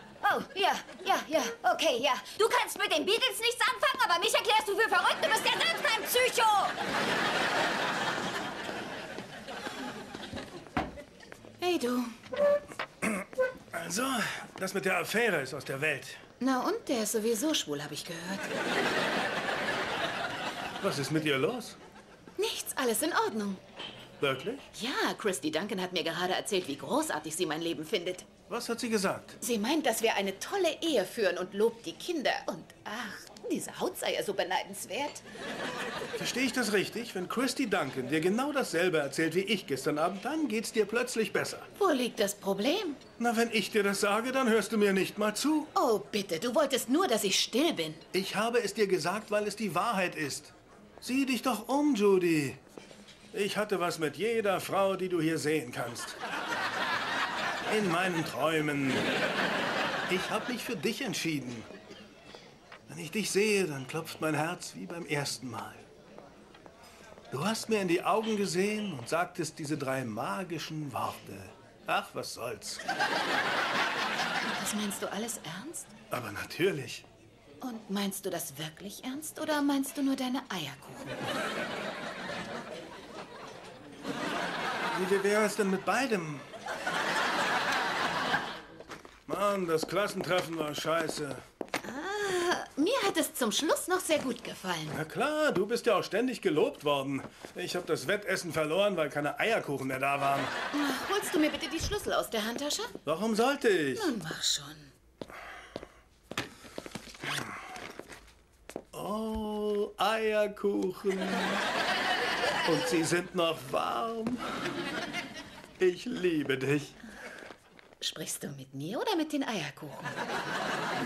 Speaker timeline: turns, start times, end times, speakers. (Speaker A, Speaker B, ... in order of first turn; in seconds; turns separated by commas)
Speaker A: 0.2-6.8, Speaker B: 11.6-12.2, Speaker C: 13.7-16.2, Speaker B: 16.4-18.5, Speaker C: 20.8-21.8, Speaker B: 22.4-23.6, Speaker C: 24.2-24.6, Speaker B: 24.7-28.3, Speaker C: 28.5-29.4, Speaker B: 29.4-35.2, Speaker C: 36.2-41.7, Speaker B: 41.8-43.0, Speaker C: 43.2-45.7, Speaker B: 45.8-48.0, Speaker C: 48.1-52.6, Speaker C: 53.3-56.2, Speaker C: 57.7-59.1, Speaker C: 60.1-61.7, Speaker C: 62.9-65.8, Speaker C: 67.3-72.8, Speaker B: 74.5-75.9, Speaker C: 76.1-77.1, Speaker B: 77.6-81.2, Speaker C: 84.9-86.5, Speaker C: 89.3-91.4, Speaker B: 91.8-95.0, Speaker C: 94.9-100.5, Speaker B: 100.7-102.9, Speaker C: 103.1-104.1, Speaker B: 104.0-104.9, Speaker C: 108.9-111.6, Speaker C: 112.7-114.4, Speaker C: 115.8-117.0, Speaker B: 118.0-120.2